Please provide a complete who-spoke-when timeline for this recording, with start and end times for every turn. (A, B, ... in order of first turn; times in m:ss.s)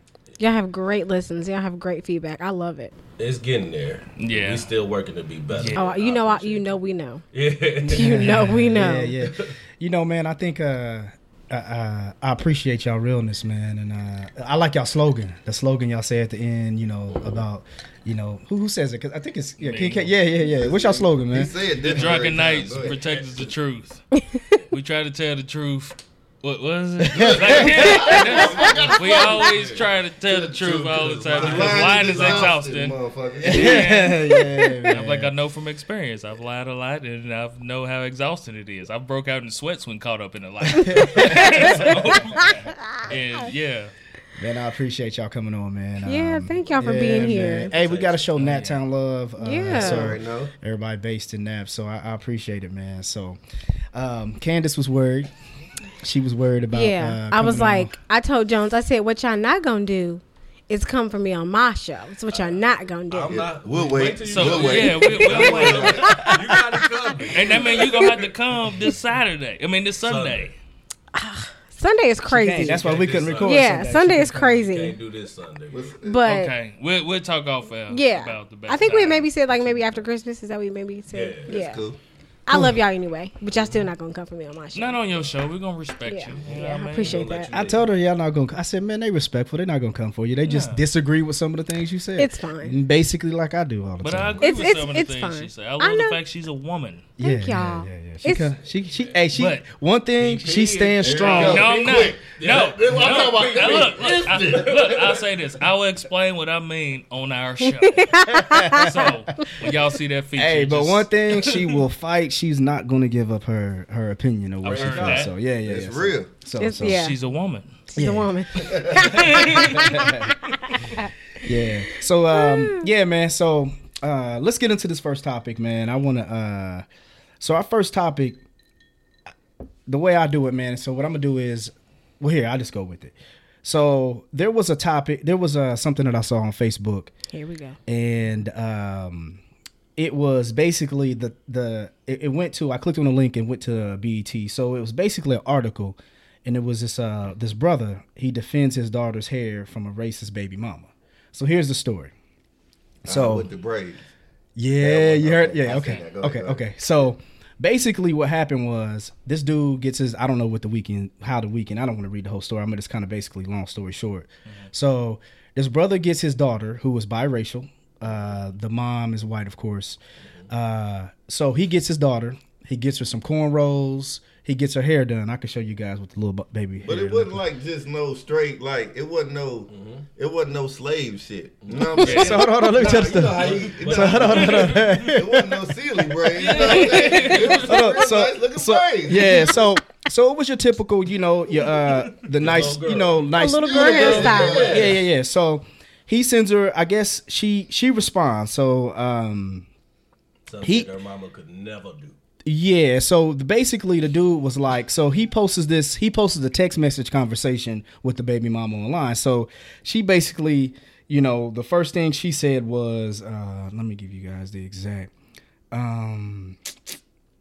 0:00.4-0:03.0 A
0:03.2-0:06.7 B
0:04.2-0:04.7 C
0:05.5-0:05.8 C
0:05.7-0:07.2 A
0:07.3-0:08.5 B
0:07.8-0:09.2 A
0:07.9-0:21.5 D
0:19.6-0:20.1 C
0:20.4-0:23.0 E
0:21.8-0:24.0 C
0:24.2-0:24.5 A
0:24.7-0:34.3 C
0:27.1-0:33.9 E
0:27.1-0:28.2 D
0:31.2-0:32.6 B
0:33.4-0:35.3 D
0:34.8-0:43.9 C
0:40.7-0:41.8 D
0:41.0-0:42.6 A
0:41.8-0:42.5 B
0:44.4-0:53.4 D
0:46.0-0:47.7 A
0:47.7-0:48.3 B
0:48.3-0:48.8 C
0:49.4-0:50.2 A
0:49.7-0:50.5 E
0:53.9-0:55.3 D
0:56.0-0:58.0 D
0:56.7-1:03.4 A
1:02.3-1:02.6 B
1:03.1-1:08.3 B
1:03.3-1:06.3 E
1:04.3-1:06.3 C
1:05.8-1:06.8 A
1:07.3-1:10.5 C
1:10.0-1:10.5 B
1:11.1-1:15.0 A
1:12.3-1:14.6 D
1:12.6-1:13.8 B
1:14.6-1:15.8 B
1:15.7-1:16.3 E
1:16.0-1:16.5 A
1:16.2-1:20.1 C
1:17.9-1:21.8 A
1:21.1-1:21.6 B
1:21.5-1:22.0 E
1:22.5-1:25.0 A
1:22.5-1:22.8 D
1:23.5-1:23.9 B
1:24.7-1:27.3 C
1:26.0-1:27.5 A
1:26.4-1:27.9 B
1:27.5-1:34.6 D
1:30.4-1:30.8 C
1:32.2-1:32.8 A
1:34.0-1:37.0 C
1:34.4-1:36.2 A
1:37.2-1:41.7 D
1:37.2-1:38.5 A
1:39.3-1:39.6 C
1:40.2-1:44.9 B
1:41.0-1:45.2 E
1:41.0-1:51.8 C
1:47.8-1:49.0 A
1:48.3-1:49.2 D
1:50.4-1:57.1 D
1:54.6-1:55.3 B
1:54.6-1:55.3 C
1:55.6-1:56.3 E
1:56.6-1:57.2 A
1:56.8-1:57.7 C
1:57.9-2:01.1 A
1:58.0-1:58.4 D
1:58.6-1:59.3 E
1:59.0-2:00.0 C
1:59.6-2:00.3 D
2:01.4-2:06.8 D
2:02.3-2:02.8 A
2:07.4-2:08.4 D
2:09.9-2:17.1 D
2:17.3-2:17.8 A
2:17.9-2:19.4 D
2:20.0-2:32.1 D
2:33.0-2:33.5 D
2:33.0-2:34.0 E
2:34.6-2:50.0 D
2:34.8-2:36.6 E
2:50.5-2:57.4 D
2:56.8-3:09.6 E
2:59.7-3:00.0 B
3:01.6-3:04.8 B
3:02.0-3:02.6 C
3:02.1-3:05.6 D
3:04.4-3:05.2 C
3:06.3-3:08.0 C
3:06.7-3:07.4 A
3:07.1-3:19.6 D
3:12.3-3:13.4 B
3:13.3-3:14.8 A
3:13.5-3:15.0 E
3:14.0-3:15.0 B
3:20.5-3:22.2 B
3:20.6-3:20.9 D
3:22.5-3:35.1 D
3:35.7-3:36.6 D